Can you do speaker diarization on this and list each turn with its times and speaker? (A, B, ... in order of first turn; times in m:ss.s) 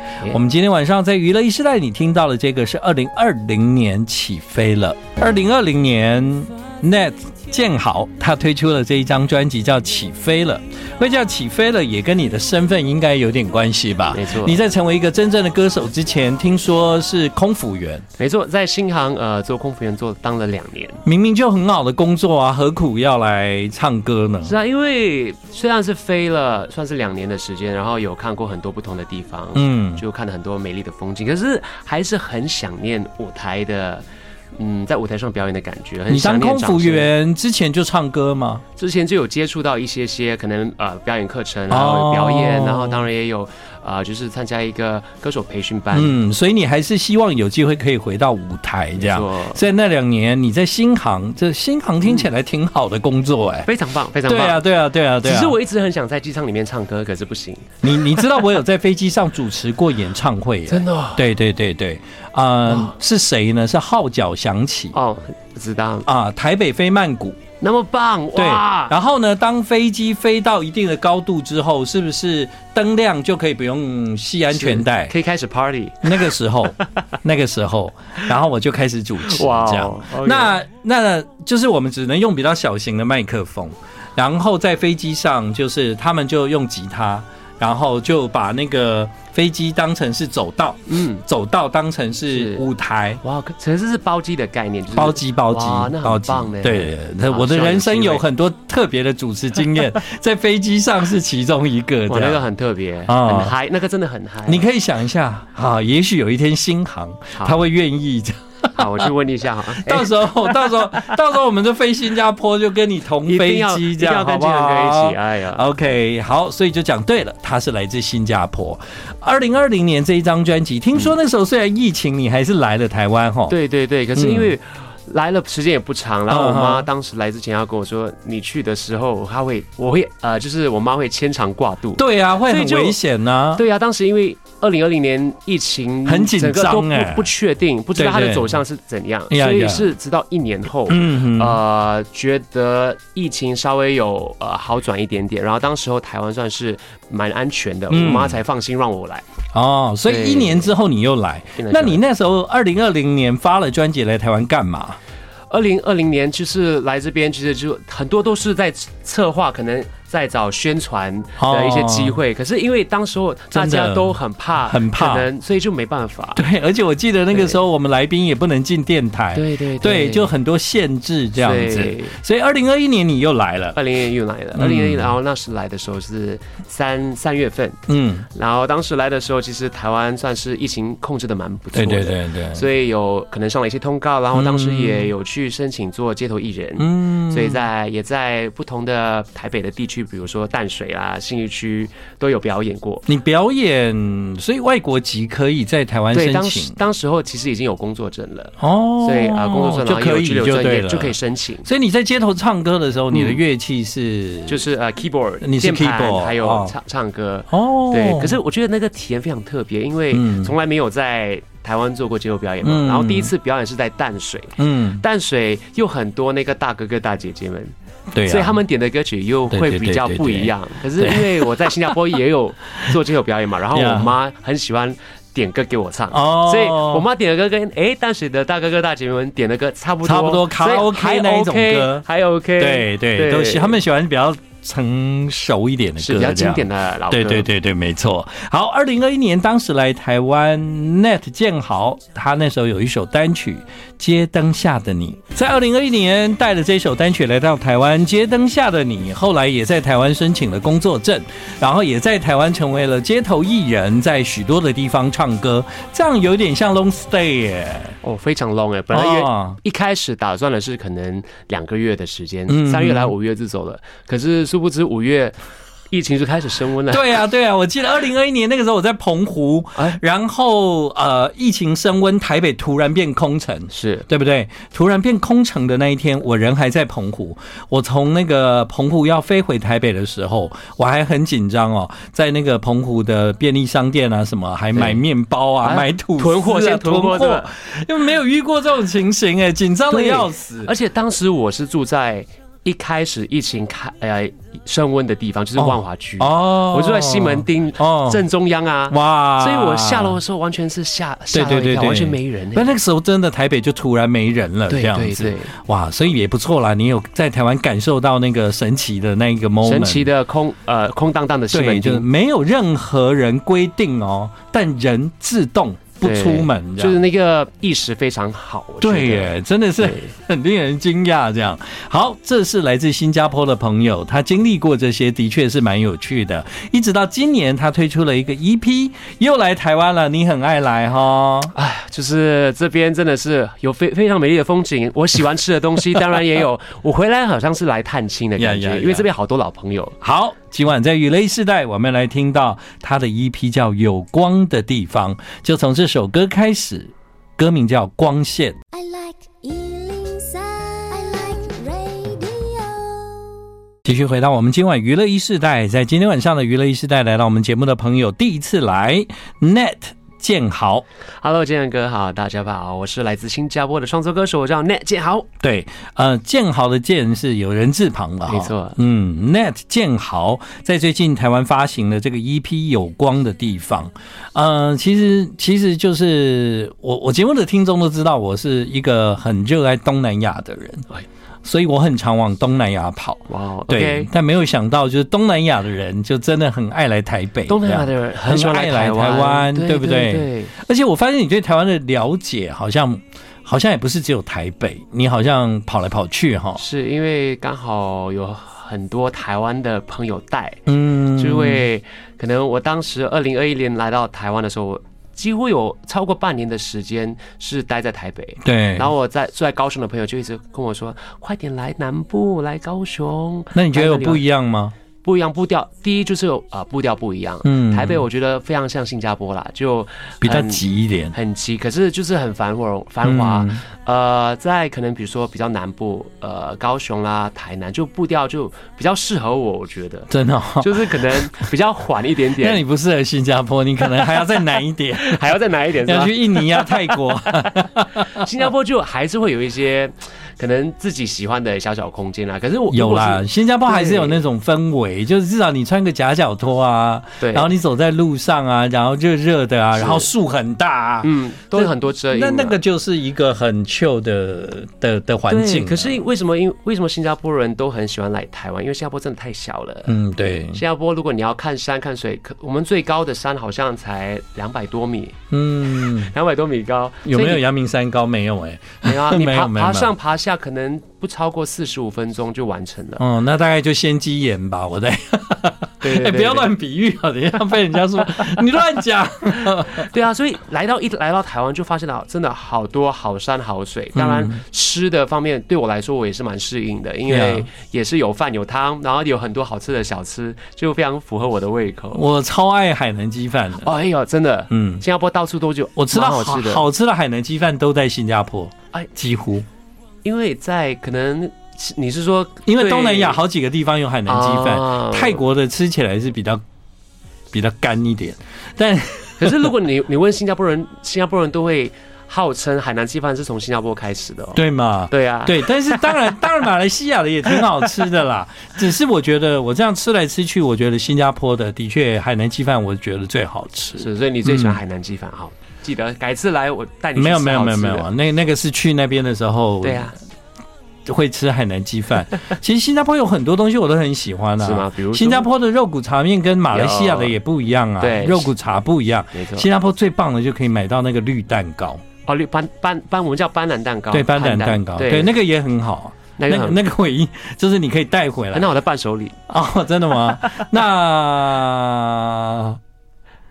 0:00.3-0:18.0 A
0:14.1-0:14.6 B
0:18.2-0:21.0 B
0:21.0-0:24.5 A
0:24.4-0:37.1 B
0:29.5-0:30.0 A
0:36.1-0:38.6 A
0:38.8-0:46.2 B
0:41.7-0:43.0 A
0:45.9-0:53.7 A
0:49.0-0:49.6 B
0:52.0-0:52.3 B
0:53.6-0:54.6 B
0:54.2-0:55.6 A
0:55.2-0:58.4 B
0:57.8-1:04.9 A
1:00.7-1:01.2 B
1:02.7-1:03.0 B
1:04.9-1:06.1 B
1:06.0-1:07.4 A
1:07.6-1:09.0 B
1:08.3-1:15.1 A
1:14.5-1:16.3 B
1:16.0-1:33.2 A
1:19.3-1:20.6 B
1:30.9-1:31.2 B
1:32.3-1:32.7 B
1:33.2-1:38.2 B
1:34.9-1:42.4 A
1:42.1-1:44.6 B
1:43.1-1:43.5 A
1:44.5-1:49.1 A
1:47.4-1:47.6 B
1:48.7-1:51.0 B
1:49.7-2:03.5 A
1:53.2-1:55.6 B
2:03.5-2:13.0 B
2:04.2-2:04.5 A
2:06.3-2:06.9 A
2:12.0-2:13.6 A
2:13.5-2:29.2 B
2:16.0-2:17.3 A
2:18.0-2:18.6 A
2:19.3-2:19.8 A
2:20.9-2:21.6 A
2:27.9-2:28.4 A
2:29.5-2:35.0 A
2:30.0-2:30.7 B
2:31.6-2:32.0 B
2:35.5-2:46.4 B
2:41.4-2:42.2 A
2:43.5-2:45.3 A
2:46.4-2:53.8 A
2:47.3-2:47.6 B
2:49.3-2:50.3 B
2:51.4-2:52.2 B
2:53.7-3:13.0 B
2:54.6-2:55.1 A
2:57.9-2:58.2 A
3:01.7-3:02.6 A
3:04.3-3:05.1 A
3:06.8-3:07.6 A
3:13.0-3:16.8 A
3:16.1-3:21.7 B
3:18.6-3:24.6 A
3:23.1-3:23.4 B
3:24.5-3:37.7 B
3:25.4-3:26.7 A
3:27.5-3:28.4 A
3:30.1-3:30.5 A
3:32.6-3:33.3 A
3:34.6-3:35.0 A
3:38.1-3:38.6 A
3:38.2-3:53.8 B
3:39.5-3:41.7 A
3:43.7-3:44.1 A
3:46.1-3:47.0 A
3:50.0-3:52.0 A
3:52.6-4:18.0 A
3:56.0-3:57.5 B
4:18.0-4:25.4 B
4:18.9-4:19.6 A
4:22.5-4:23.1 A
4:25.9-4:27.1 B
4:26.9-4:50.7 A
4:33.7-4:34.1 B
4:44.7-4:45.0 B
4:45.6-4:47.5 B
4:49.9-5:02.7 B
4:55.6-4:58.2 A
4:58.9-5:00.2 A
5:01.3-5:10.1 A
5:04.7-5:05.5 B
5:09.6-5:12.1 B
5:11.5-5:17.0 A
5:16.0-5:20.1 B
5:18.8-5:31.5 A
5:31.5-5:40.0 B
5:38.4-5:39.1 A
5:40.0-5:48.6 A
5:48.7-5:53.4 C
5:53.8-6:00.8 A
6:01.2-6:05.3 B
6:05.4-6:20.9 A
6:08.3-6:08.8 B
6:21.4-6:36.6 A
6:23.3-6:24.1 B
6:27.5-6:30.5 B
6:36.6-6:54.2 B
6:40.7-6:41.6 A
6:48.4-6:48.9 A
6:53.5-6:54.7 A
6:55.0-7:12.6 B
6:57.4-6:58.0 A
7:00.2-7:01.1 A
7:03.0-7:03.6 A
7:10.1-7:11.4 A
7:12.4-7:15.3 A
7:14.0-7:24.2 B
7:15.8-7:18.2 A
7:22.7-7:36.0 A
7:27.2-7:27.5 B
7:29.8-7:30.1 B
7:31.0-7:32.6 B
7:35.3-7:39.9 B
7:39.9-7:40.6 A
7:40.5-7:45.2 B
7:45.3-7:46.1 A
7:45.8-7:47.4 B
7:47.0-7:49.9 A
7:48.8-7:53.0 B
7:53.0-7:59.9 A
7:55.8-7:56.5 B
7:59.5-8:12.0 B
8:03.9-8:04.4 A
8:07.1-8:07.5 A
8:11.9-8:13.7 A
8:13.6-8:16.6 B
8:14.5-8:14.8 A
8:15.8-8:19.4 A
8:20.0-8:23.2 B
8:22.4-8:26.4 A
8:24.0-8:25.2 B
8:27.3-8:29.4 A
8:29.2-8:36.1 B
8:34.3-8:44.6 A
8:43.8-8:47.9 B
8:47.0-8:49.9 A
8:49.6-8:50.0 B
8:50.8-9:01.8 A
8:54.4-8:55.3 B
8:56.5-8:57.2 B
8:57.8-8:58.3 B
8:59.1-8:59.5 B
9:02.0-9:05.1 B
9:03.9-9:08.5 A
9:06.2-9:06.6 B
9:08.3-9:09.2 B
9:09.3-9:12.6 A